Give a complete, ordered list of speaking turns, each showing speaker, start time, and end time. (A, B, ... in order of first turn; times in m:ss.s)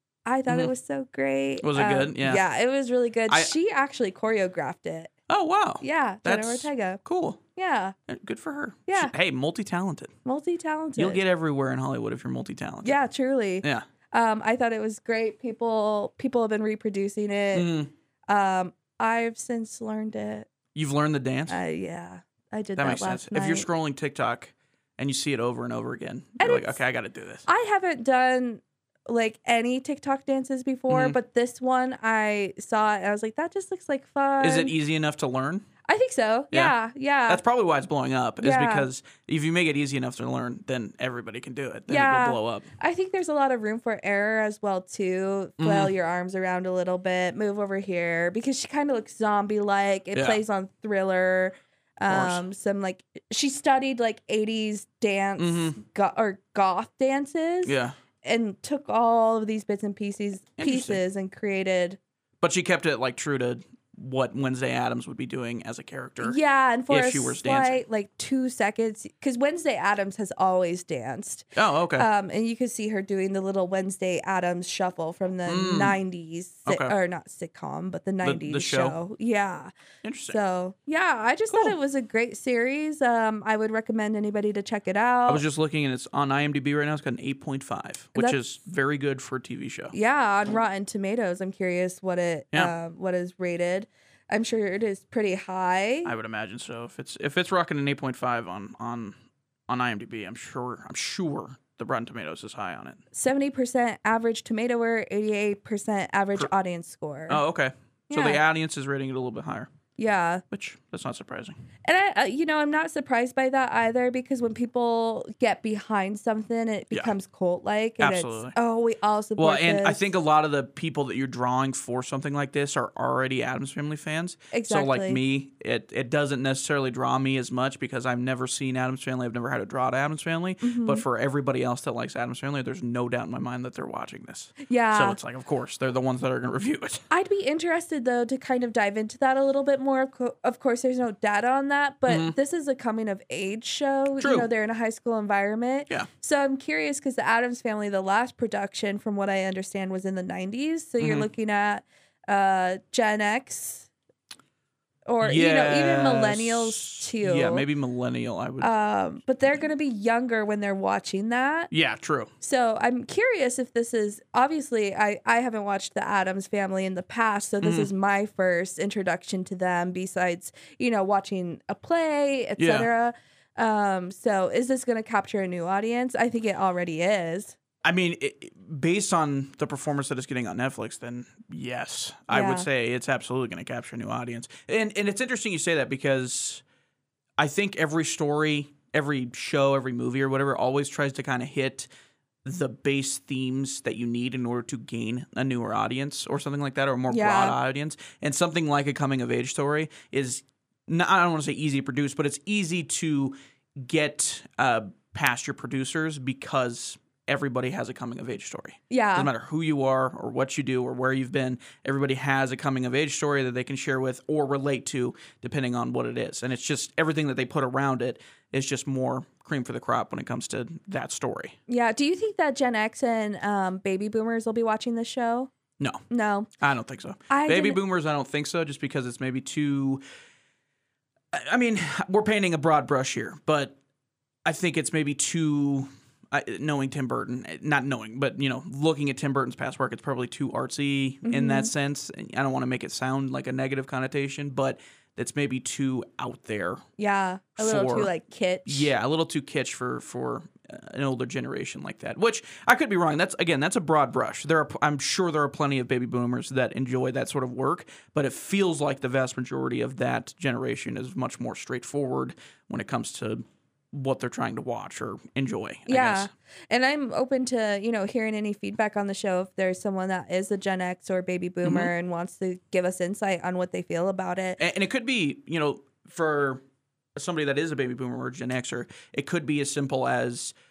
0:00.3-0:05.1 A
0:01.6-0:02.4 B
0:05.3-0:07.4 B
0:05.8-0:07.0 A
0:07.6-0:08.0 A
0:08.1-0:10.1 B
0:08.9-0:09.1 A
0:10.2-0:11.2 A
0:11.0-0:13.0 B
0:12.8-0:17.7 A
0:17.5-0:17.9 B
0:18.3-0:20.5 A
0:20.8-0:21.6 B
0:21.5-0:23.7 A
0:22.8-0:27.4 B
0:26.4-0:26.8 A
0:27.5-0:34.7 A
0:30.9-0:31.2 B
0:34.4-0:35.7 B
0:35.9-0:37.4 A
0:37.3-0:42.7 B
0:38.4-0:38.9 A
0:41.9-1:02.0 A
0:45.6-0:45.9 B
0:50.1-0:50.4 B
0:52.1-0:52.4 B
0:55.4-0:55.8 B
0:57.6-0:58.0 B
1:00.6-1:01.0 B
1:02.4-1:06.4 B
1:06.2-1:19.7 A
1:06.9-1:07.8 B
1:11.6-1:12.1 B
1:15.5-1:16.0 B
1:16.7-1:16.9 B
1:18.2-1:19.0 B
1:20.0-1:20.4 B
1:20.3-1:25.4 A
1:25.3-1:29.9 B
1:29.9-1:36.1 A
1:36.0-1:39.2 B
1:39.7-1:43.0 B
1:43.1-1:47.4 A
1:47.3-1:49.7 B
1:48.1-1:48.4 A
1:50.0-1:50.4 A
1:50.5-1:51.6 B
1:51.8-2:00.0 A
1:58.0-1:58.6 B
1:59.4-2:17.0 B
2:04.5-2:05.2 A
2:10.6-2:11.0 A
2:14.6-2:15.2 A
2:17.1-2:33.9 A
2:22.1-2:22.4 B
2:24.2-2:24.5 B
2:31.0-2:31.3 B
2:35.1-2:37.6 A
2:35.2-2:38.7 B
2:38.6-2:41.7 A
2:41.7-2:42.3 B
2:42.4-2:57.6 A
2:47.6-2:47.9 B
2:52.6-2:52.9 B
2:57.8-3:06.6 B
3:02.3-3:02.7 A
3:07.4-3:11.9 B
3:12.4-3:41.6 B
3:17.1-3:17.6 A
3:28.9-3:29.3 A
3:41.7-3:45.5 A
3:46.1-3:46.5 A
3:46.6-3:50.0 B
3:47.3-3:47.8 A
3:51.3-3:53.8 B
3:54.4-4:06.8 B
4:01.2-4:01.7 A
4:07.0-4:08.9 A
4:07.6-4:08.1 B
4:08.7-4:26.3 B
4:25.9-4:34.6 A
4:31.6-4:31.9 B
4:34.6-4:36.6 B
4:37.2-4:40.5 B